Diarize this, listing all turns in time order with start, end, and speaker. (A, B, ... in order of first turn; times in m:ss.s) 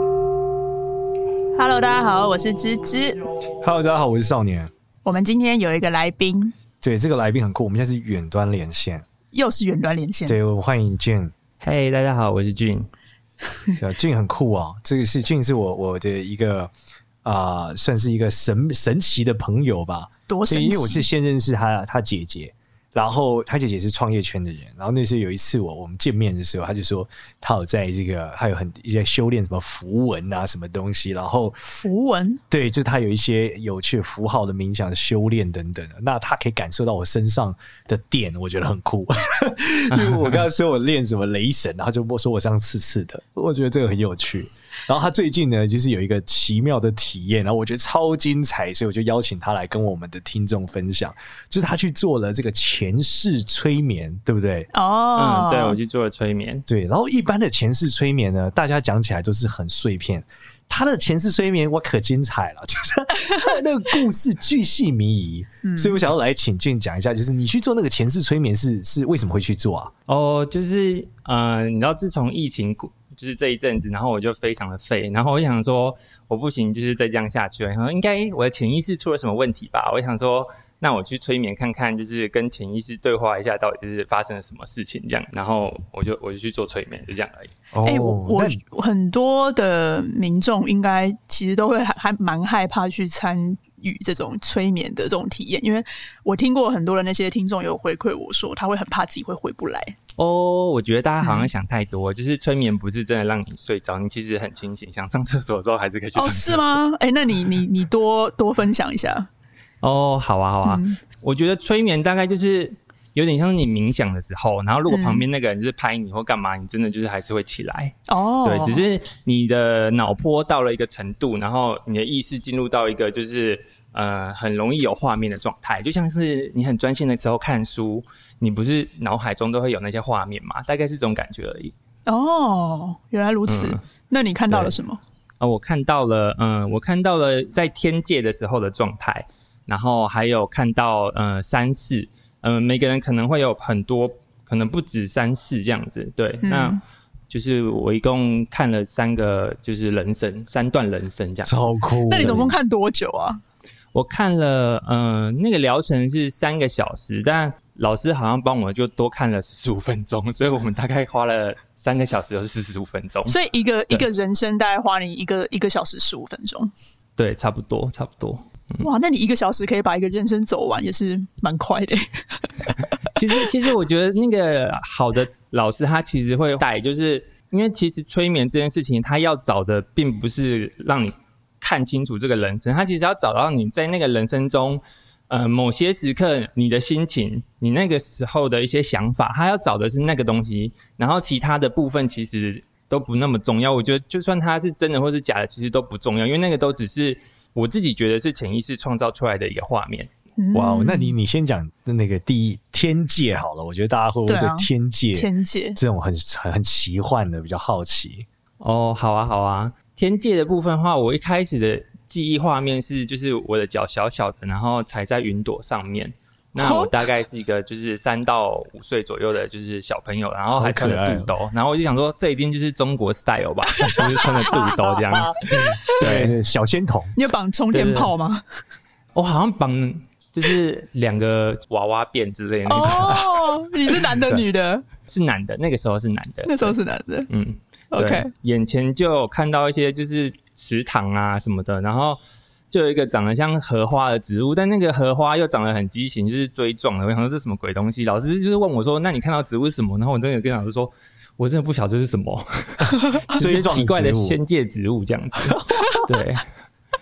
0:01.5-0:03.3 A
0:03.6-0:04.7 B
0:05.0-0:06.5 A
0:06.8-0:09.0 B
0:09.3-0:10.4 A
0:10.2-0:11.3 B
0:11.6-0:12.9 C
0:13.8-0:16.7 B
0:17.2-0:31.6 B
0:20.3-0:21.1 A
0:31.8-0:32.4 A
0:32.5-0:54.7 B
0:39.9-0:40.4 C
0:54.7-0:55.8 A
0:55.2-0:56.6 C
0:56.7-1:09.9 B
1:05.6-1:06.0 A
1:10.1-1:27.5 C
1:27.7-1:28.6 B
1:27.8-1:40.0 A
1:40.2-1:46.8 C
1:41.2-1:41.5 A
1:46.2-1:49.3 A
1:49.8-2:11.7 C
1:50.6-1:51.0 A
1:54.9-1:55.2 A
1:58.1-1:58.8 A
2:12.0-2:15.0 A
2:13.5-2:13.8 C
2:14.5-2:14.8 C
2:15.4-2:32.4 C
2:26.4-2:26.8 A
2:31.4-2:32.6 B
2:32.1-2:33.4 A
2:33.9-2:43.4 C
2:43.3-2:46.7 A
2:47.2-2:48.9 C
2:48.8-2:52.9 A
2:53.1-3:20.1 C
3:20.4-3:21.2 A
3:20.5-3:28.2 B
3:24.2-3:25.8 A
3:28.6-3:46.4 C
3:36.6-3:36.9 A
3:40.5-3:41.3 B
3:43.8-3:44.9 A
3:45.1-3:47.1 B
3:47.2-3:48.4 A
3:47.7-3:48.1 C
3:49.1-3:54.4 C
3:52.7-3:54.8 A
3:55.0-3:56.8 C
3:56.4-3:57.3 A
3:57.3-4:02.2 C
3:57.9-3:58.3 A
4:02.7-4:16.4 C
4:13.3-4:14.4 B